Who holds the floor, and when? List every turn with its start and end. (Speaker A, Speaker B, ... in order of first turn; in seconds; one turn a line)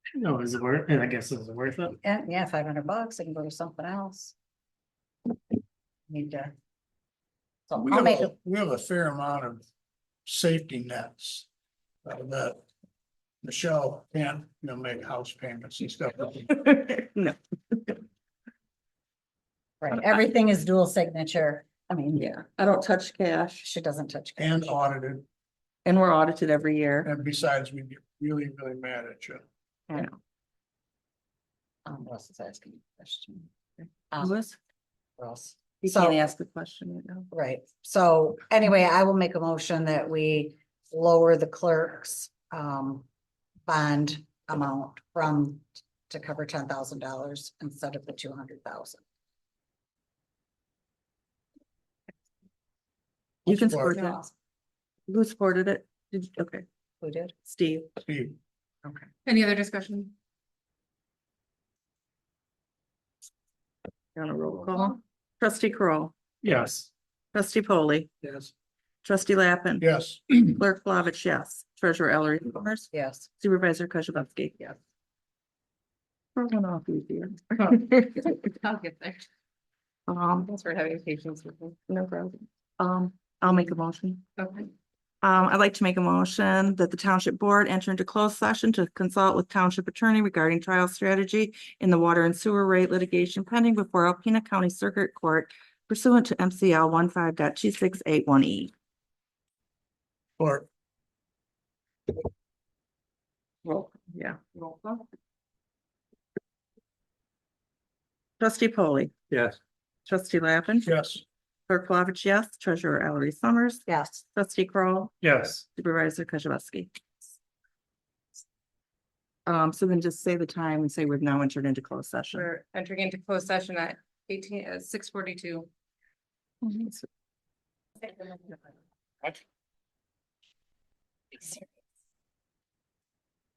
Speaker A: 0.2-1.9
Speaker B: 2.0-4.3
Speaker B: 6.1-6.5
Speaker B: 7.7-8.3
Speaker C: 7.8-9.7
Speaker C: 10.2-11.5
Speaker C: 12.0-12.6
Speaker C: 13.4-16.5
Speaker D: 16.4-18.0
Speaker B: 19.8-22.3
Speaker D: 22.1-23.7
Speaker B: 23.6-24.8
Speaker C: 24.4-25.2
Speaker D: 25.8-27.1
Speaker C: 27.0-29.4
Speaker D: 29.9-30.2
Speaker B: 31.9-33.5
Speaker D: 33.8-34.6
Speaker B: 34.1-34.4
Speaker B: 35.2-36.2
Speaker D: 35.8-37.3
Speaker B: 37.3-43.1
Speaker B: 43.6-49.0
Speaker C: 53.4-54.0
Speaker D: 53.5-54.2
Speaker D: 55.1-56.6
Speaker B: 57.0-57.3
Speaker D: 57.4-57.9
Speaker C: 58.0-58.4
Speaker E: 59.2-60.1
Speaker D: 64.1-66.1
Speaker A: 66.4-66.9
Speaker D: 67.3-68.1
Speaker D: 69.0-69.9
Speaker C: 69.8-70.4
Speaker D: 70.4-74.8
Speaker B: 72.9-73.3
Speaker D: 76.3-78.3
Speaker E: 77.8-79.3
Speaker D: 80.1-80.5
Speaker E: 80.4-81.8
Speaker D: 81.9-84.2
Speaker E: 84.4-84.7
Speaker D: 85.2-98.7
Speaker C: 100.4-100.7
Speaker D: 103.6-105.0
Speaker D: 108.4-109.1
Speaker A: 109.3-109.5
Speaker D: 110.0-110.9
Speaker C: 110.8-111.2
Speaker D: 111.7-115.1
Speaker B: 113.9-114.2
Speaker A: 115.2-115.6
Speaker D: 115.7-116.9
Speaker D: 119.5-122.5
Speaker E: 122.3-125.7
Speaker D: 126.6-127.0